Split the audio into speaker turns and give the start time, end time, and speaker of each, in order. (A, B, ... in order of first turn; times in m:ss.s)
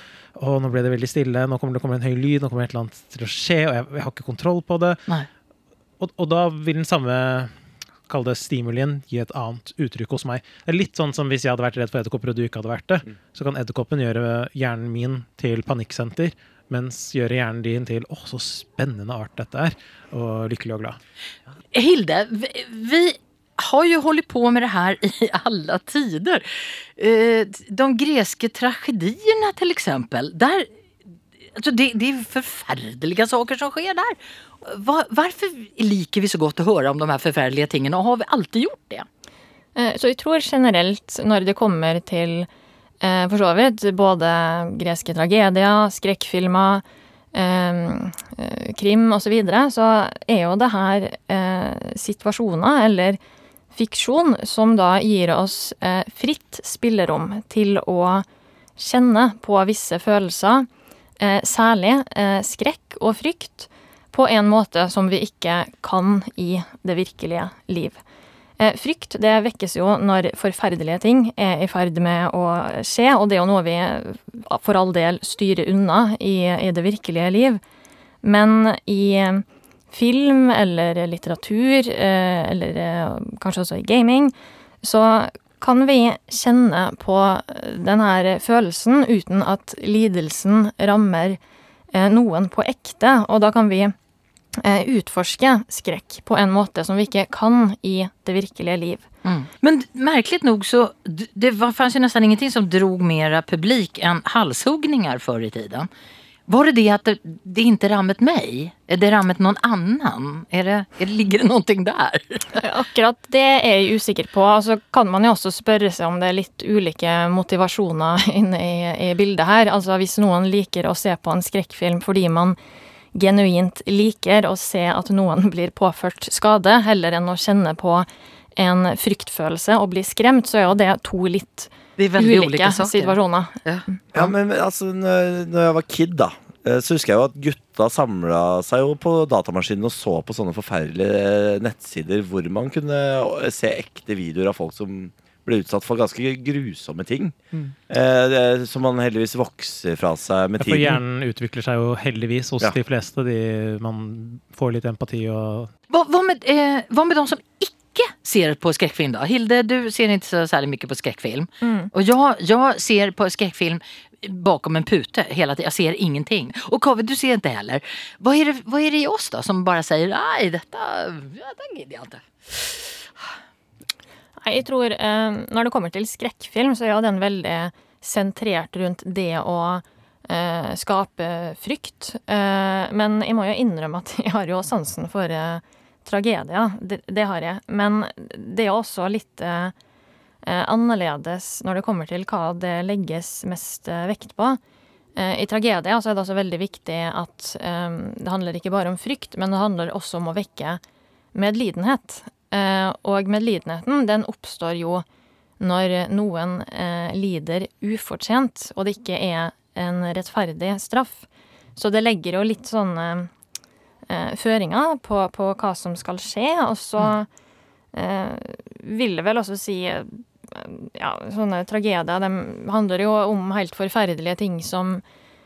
0:00.3-0:05.0 A
0:06.0-0:07.5 A
0:08.1-0:21.0 A
0:21.7-0:30.7 B
0:31.5-0:39.0 B
0:39.7-0:42.5 C
0:43.0-0:46.8 C
0:47.3-0:53.2 C
0:53.7-0:58.2 C
0:58.8-1:00.7 C
1:01.2-1:08.0 C
1:08.6-1:17.6 C
1:18.2-1:31.4 C
1:31.9-1:33.9 C
1:34.6-1:39.0 C
1:39.2-1:45.9 B
1:46.5-1:52.5 B
1:52.6-2:02.6 C
2:03.1-2:13.6 C
2:12.0-2:14.2 B
2:14.1-2:27.4 D
2:27.9-2:31.0 D
2:30.6-2:35.7 A
2:35.9-2:52.9 B
2:41.6-2:41.9 C
2:54.4-3:09.7 C
3:10.4-3:14.6 C
3:15.2-3:20.8 C
3:21.3-3:25.0 C
3:25.6-3:33.3 C
3:34.1-3:37.3 C
3:37.9-3:45.0 C